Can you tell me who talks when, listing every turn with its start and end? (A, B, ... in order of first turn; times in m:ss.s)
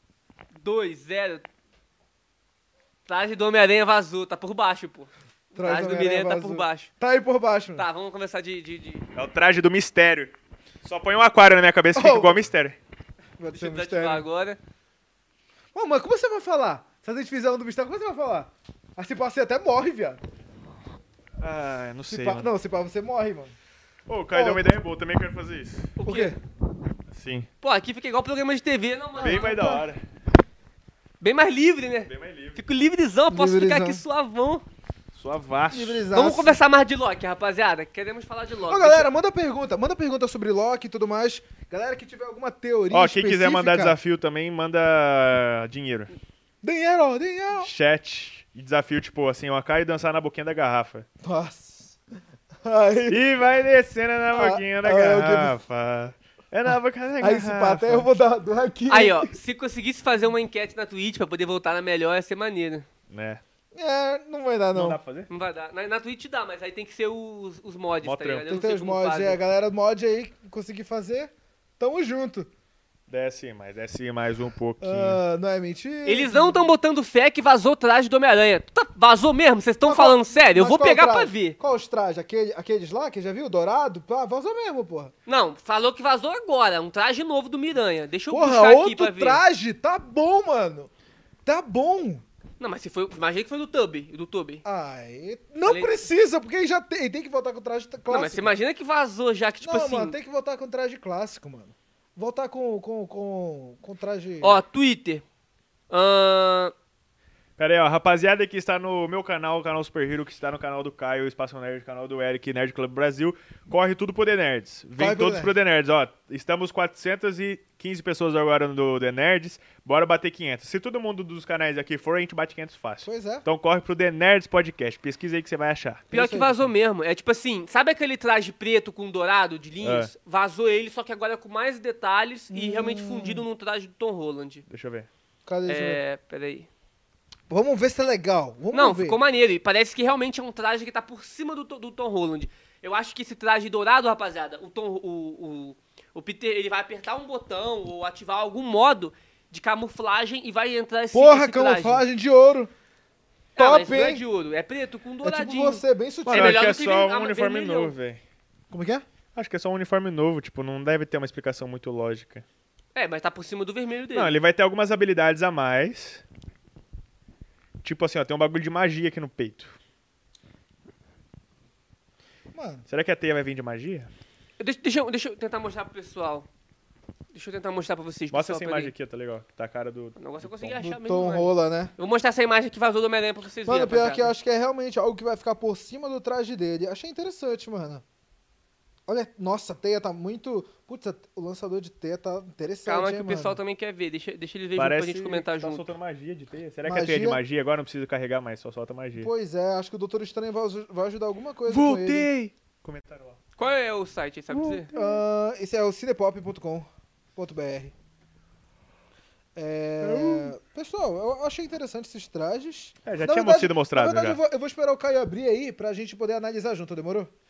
0:00.6-0:01.5 A
0:03.1-0:06.9 A
0:05.6-0:07.9 B
0:07.8-0:09.1 A
0:09.2-0:12.8 C
0:12.0-0:12.4 B
0:13.4-0:14.3 B
0:13.5-0:14.6 A
0:15.7-0:20.2 B
0:21.4-0:22.5 C
0:22.1-0:23.6 B
0:24.1-0:25.9 C
0:24.3-0:24.6 B
0:26.0-0:26.3 A
0:26.0-0:26.4 B
0:27.1-0:27.5 C
0:27.6-0:29.8 A
0:29.2-0:29.8 B
0:29.2-0:30.0 C
0:31.2-0:34.6 A
0:32.1-0:32.6 C
0:33.3-0:34.0 B
0:35.1-0:36.1 C
0:35.7-0:36.6 B
0:36.1-0:39.1 A
0:38.7-0:44.0 B
0:42.9-0:46.1 C
0:46.6-0:47.7 B
0:47.6-0:51.1 C
0:51.2-0:52.0 B
0:52.6-0:53.3 B
0:53.1-0:58.1 C
0:54.3-0:55.6 B
0:57.2-0:59.3 B
0:58.9-1:02.9 A
1:03.1-1:03.4 C
1:03.7-1:05.0 B
1:04.7-1:05.3 C
1:05.3-1:09.4 A
1:08.0-1:08.5 C
1:08.5-1:12.5 B
1:13.1-1:15.2 C
1:14.8-1:16.7 B
1:16.1-1:21.6 A
1:19.8-1:25.1 B
1:25.3-1:29.4 A
1:28.3-1:30.9 B
1:31.5-1:32.2 B
1:32.6-1:34.6 A
1:34.6-1:38.5 B
1:35.6-1:36.0 A
1:38.1-1:40.2 A
1:39.6-1:44.6 B
1:44.4-1:45.2 A
1:45.9-1:46.7 A
1:47.6-2:06.1 C
1:55.0-1:55.6 B
2:03.0-2:03.5 B
2:06.1-2:14.6 A
2:06.1-2:06.7 B
2:09.8-2:10.1 C
2:12.5-2:13.4 B
2:14.7-2:15.1 C
2:15.5-2:16.0 B
2:15.7-2:16.7 A
2:17.5-2:19.2 B
2:18.7-2:32.0 A
2:31.1-2:32.7 B
2:33.6-2:37.9 A
2:33.6-2:34.2 B
2:35.2-2:36.6 B
2:36.3-2:38.2 C
2:38.7-2:39.1 B
2:39.4-2:42.4 C
2:43.0-2:44.3 A
2:44.1-2:46.2 C
2:47.8-2:49.8 C
2:52.5-2:52.9 B
2:52.9-2:54.1 C
2:54.6-2:56.5 A
2:57.3-2:58.9 A
2:58.3-3:00.8 C
3:00.2-3:04.3 A
3:00.8-3:01.9 B
3:03.7-3:08.0 B
3:09.1-3:13.6 B
3:12.9-3:15.9 A
3:14.8-3:19.3 C
3:16.8-3:17.4 B
3:19.2-3:22.3 B
3:21.7-3:23.4 C
3:23.6-3:24.9 A
3:24.5-3:25.2 C
3:24.9-3:27.9 B
3:29.6-3:37.3 B
3:30.0-3:30.5 C
3:33.1-3:34.4 C